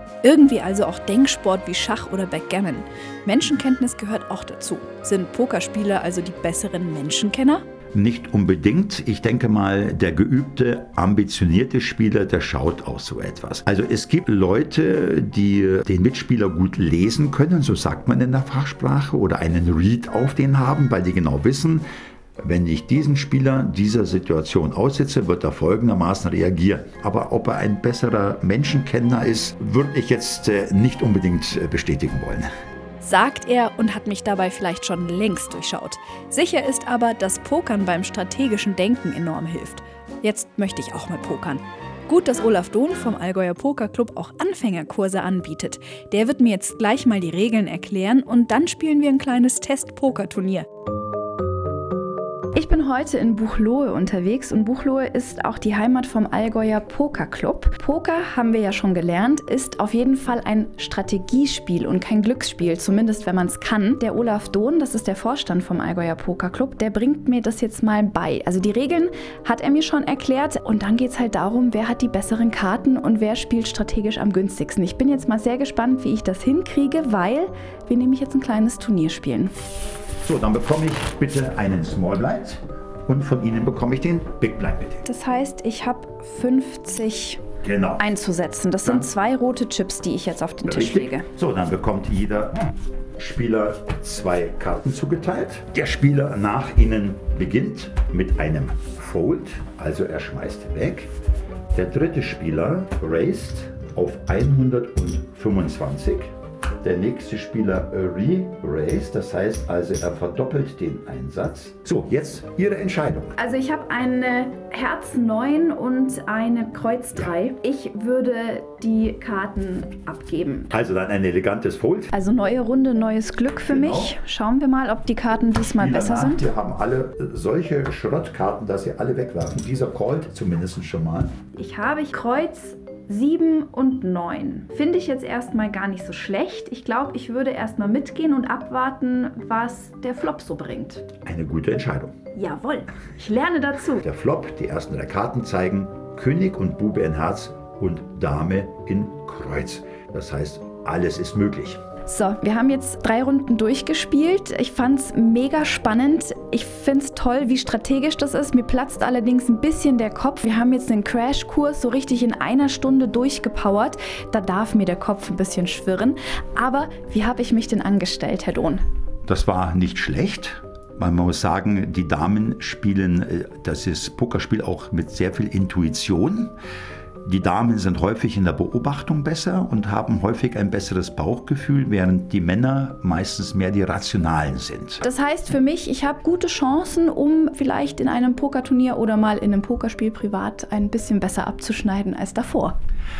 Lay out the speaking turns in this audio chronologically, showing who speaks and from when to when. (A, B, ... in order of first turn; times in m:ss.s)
0:00.2-0:07.6 A
0:07.9-0:21.9 B
0:22.4-0:32.5 B
0:33.0-0:50.7 A
0:52.6-1:19.5 A
1:20.2-1:25.0 B
1:25.0-1:27.4 A
1:27.6-1:28.1 B
1:28.0-1:31.3 A
1:30.6-1:32.6 B
1:33.2-1:41.1 B
1:41.8-1:46.3 B
1:46.8-1:53.4 B
1:53.4-2:00.7 A
2:00.7-2:02.1 B
2:02.1-2:06.4 A
2:03.7-2:04.2 B
2:05.7-2:11.3 B
2:11.5-2:21.1 A
2:21.2-2:22.1 B
2:22.4-2:24.1 A
2:24.0-2:31.8 B
2:32.1-2:48.8 A
2:49.3-2:56.6 B
2:57.2-3:05.0 B
3:05.0-3:12.8 A